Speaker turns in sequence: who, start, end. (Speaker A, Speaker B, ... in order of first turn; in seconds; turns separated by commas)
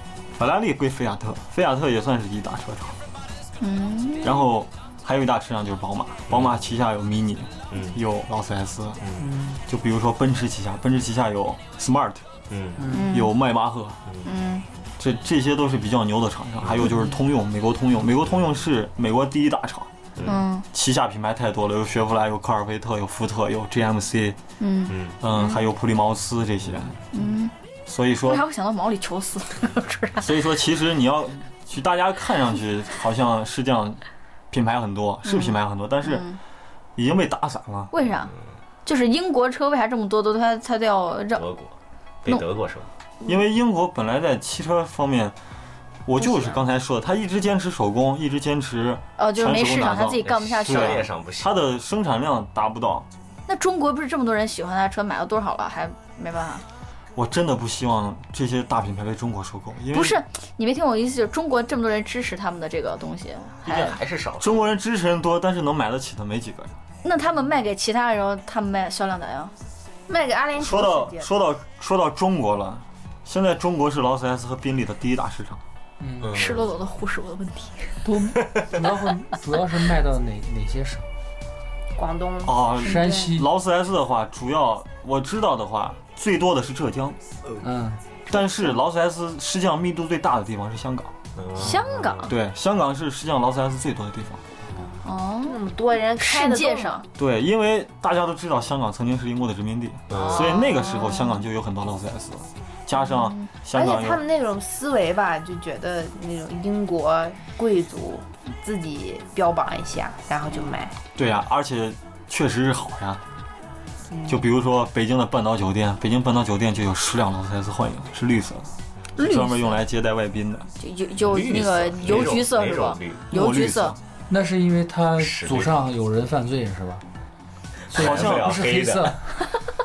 Speaker A: 0.3-3.0, Speaker B: 3.6-4.4, Speaker A: 4.2-9.0, Speaker C: 6.3-6.6, Speaker C: 7.7-8.0, Speaker C: 9.0-9.3, Speaker D: 9.2-9.6, Speaker A: 9.7-12.3, Speaker C: 12.5-12.9, Speaker D: 12.8-13.1, Speaker B: 12.9-13.3, Speaker A: 13.1-14.0, Speaker C: 14.1-14.3, Speaker B: 14.2-14.6, Speaker A: 15.0-19.9, Speaker C: 16.6-17.0, Speaker D: 16.9-17.1, Speaker C: 20.2-20.4, Speaker B: 20.2-20.6, Speaker A: 20.7-24.4, Speaker B: 24.6-25.6, Speaker C: 24.9-25.2, Speaker A: 25.2-27.0, Speaker B: 27.1-27.5, Speaker A: 27.9-28.4, Speaker B: 28.2-30.3, Speaker A: 30.2-34.0, Speaker A: 34.5-36.2, Speaker B: 35.2-36.4, Speaker A: 37.0-37.9, Speaker B: 37.9-41.5, Speaker C: 41.3-41.7, Speaker C: 42.2-42.9, Speaker A: 43.2-45.4, Speaker A: 46.0-53.1, Speaker B: 49.2-51.1, Speaker C: 50.2-51.6, Speaker B: 53.5-56.6, Speaker A: 57.1-60.2, Speaker B: 59.9-64.0, Speaker C: 63.6-64.7, Speaker A: 64.4-66.7, Speaker B: 67.0-69.5, Speaker E: 70.1-71.3, Speaker A: 70.6-75.6, Speaker D: 76.0-76.3, Speaker C: 76.2-76.8, Speaker B: 76.3-78.0, Speaker D: 78.0-81.1, Speaker E: 82.0-83.3, Speaker A: 82.4-87.2, Speaker D: 82.8-83.5, Speaker D: 87.6-88.0, Speaker A: 88.3-91.1, Speaker C: 91.3-92.3, Speaker B: 91.5-92.3, Speaker A: 92.3-94.4, Speaker B: 95.0-95.6, Speaker E: 95.4-97.0, Speaker B: 96.2-97.0, Speaker A: 97.1-104.2, Speaker C: 100.1-100.6, Speaker B: 100.1-101.4, Speaker B: 103.1-103.5, Speaker E: 103.7-111.0, Speaker A: 111.1-113.2, Speaker E: 114.1-114.4, Speaker A: 114.3-120.7, Speaker B: 119.2-119.8, Speaker B: 120.8-123.9, Speaker C: 121.2-123.2, Speaker A: 123.3-124.0, Speaker D: 124.3-127.0, Speaker C: 125.2-125.7, Speaker C: 127.9-129.2, Speaker D: 127.9-129.4, Speaker A: 128.0-128.6